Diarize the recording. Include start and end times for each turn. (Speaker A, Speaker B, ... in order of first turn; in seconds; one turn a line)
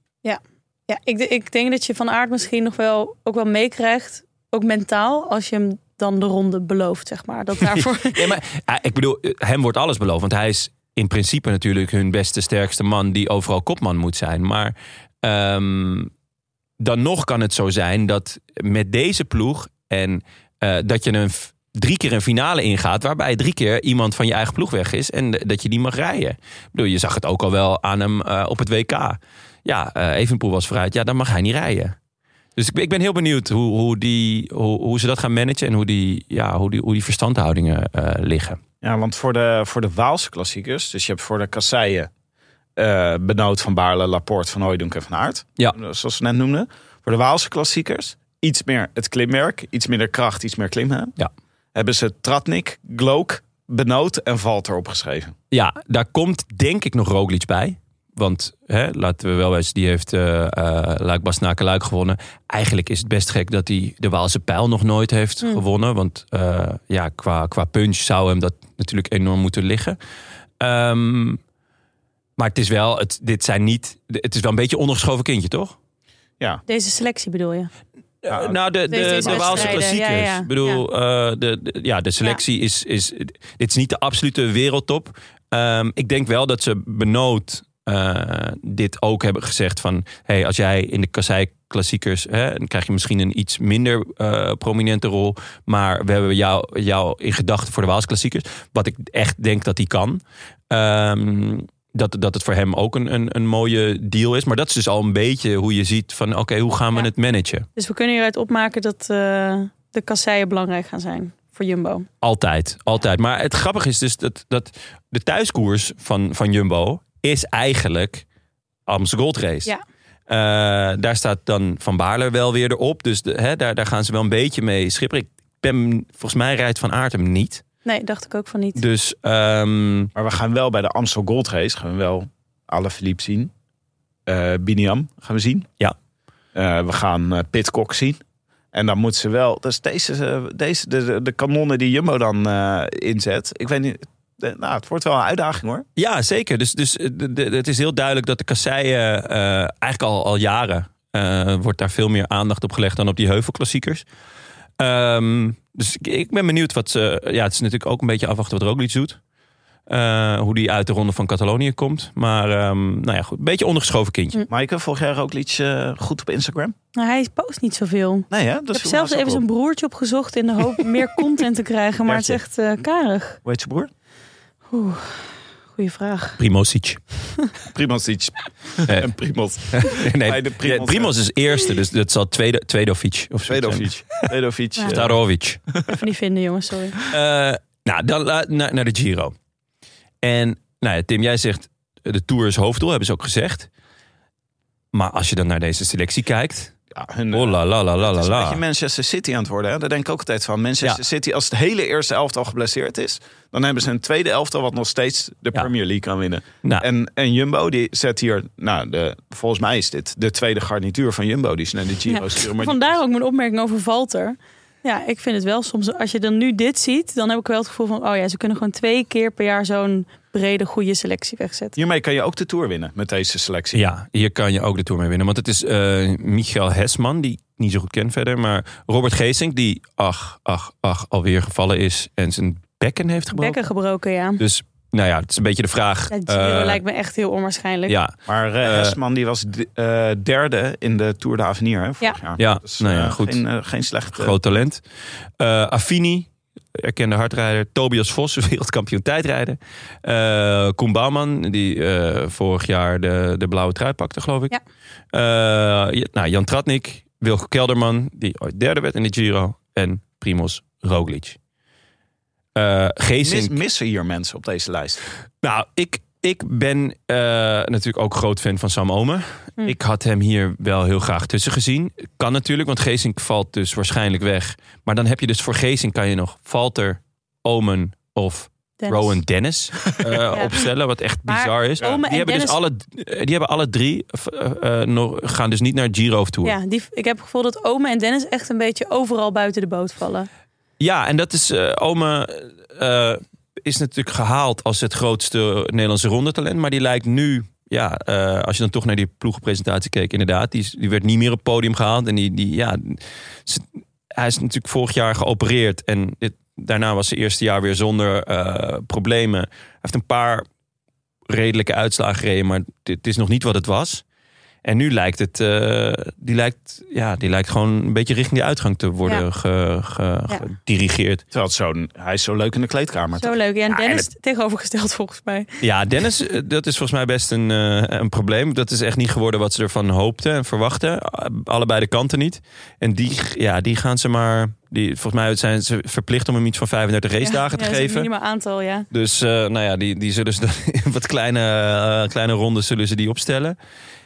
Speaker A: 0.2-8.4
Speaker B: 7.7-16.1
Speaker B: 16.8-32.0
Speaker B: 32.6-38.6
Speaker C: 38.8-42.1
Speaker C: 42.8-51.1
Speaker C: 51.8-55.3
Speaker B: 55.5-70.0
Speaker B: 70.6-71.4
Speaker B: 72.4-75.8
Speaker A: 76.7-77.7
Speaker B: 78.2-107.7
Speaker C: 78.3-79.8
Speaker A: 78.9-80.8
Speaker A: 107.8-112.1
Speaker B: 112.2-118.2
Speaker B: 118.9-119.7
Speaker B: 120.3-127.6
Speaker A: 127.8-128.8
Speaker B: 128.8-130.1
Speaker C: 130.2-133.5
Speaker C: 134.3-135.7
Speaker C: 136.6-138.2
Speaker C: 138.7-145.9
Speaker B: 146.0-154.1
Speaker B: 154.8-159.2
Speaker B: 159.9-164.4
Speaker C: 164.5-166.8
Speaker A: 166.9-173.4
Speaker C: 168.3-169.4
Speaker C: 172.1-172.4
Speaker C: 173.4-173.9
Speaker A: 174.7-176.4
Speaker B: 176.4-177.0
Speaker C: 177.7-181.1
Speaker B: 178.9-179.1
Speaker B: 179.7-184.2
Speaker C: 183.5-185.2
Speaker B: 184.9-185.6
Speaker A: 185.9-187.0
Speaker B: 187.1-189.3
Speaker B: 190.2-193.7
Speaker B: 194.9-196.8
Speaker C: 196.9-213.0
Speaker B: 197.3-198.6
Speaker A: 212.1-221.8
Speaker C: 221.8-223.8
Speaker B: 223.7-233.6
Speaker A: 233.3-234.4
Speaker B: 234.4-236.8
Speaker A: 236.1-238.0
Speaker B: 237.9-239.0
Speaker C: 238.3-244.4
Speaker B: 242.4-243.4
Speaker B: 244.2-244.8
Speaker B: 245.4-254.5
Speaker B: 255.1-261.4
Speaker B: 262.6-263.6
Speaker C: 263.2-265.0
Speaker B: 265.4-286.6
Speaker A: 278.8-279.2
Speaker A: 281.3-282.6
Speaker A: 286.4-290.3
Speaker B: 290.8-310.5
Speaker B: 311.3-314.0
Speaker B: 314.6-321.2
Speaker C: 321.3-323.4
Speaker A: 323.2-325.5
Speaker B: 323.7-324.1
Speaker B: 325.6-338.1
Speaker A: 337.2-338.9
Speaker B: 338.9-343.6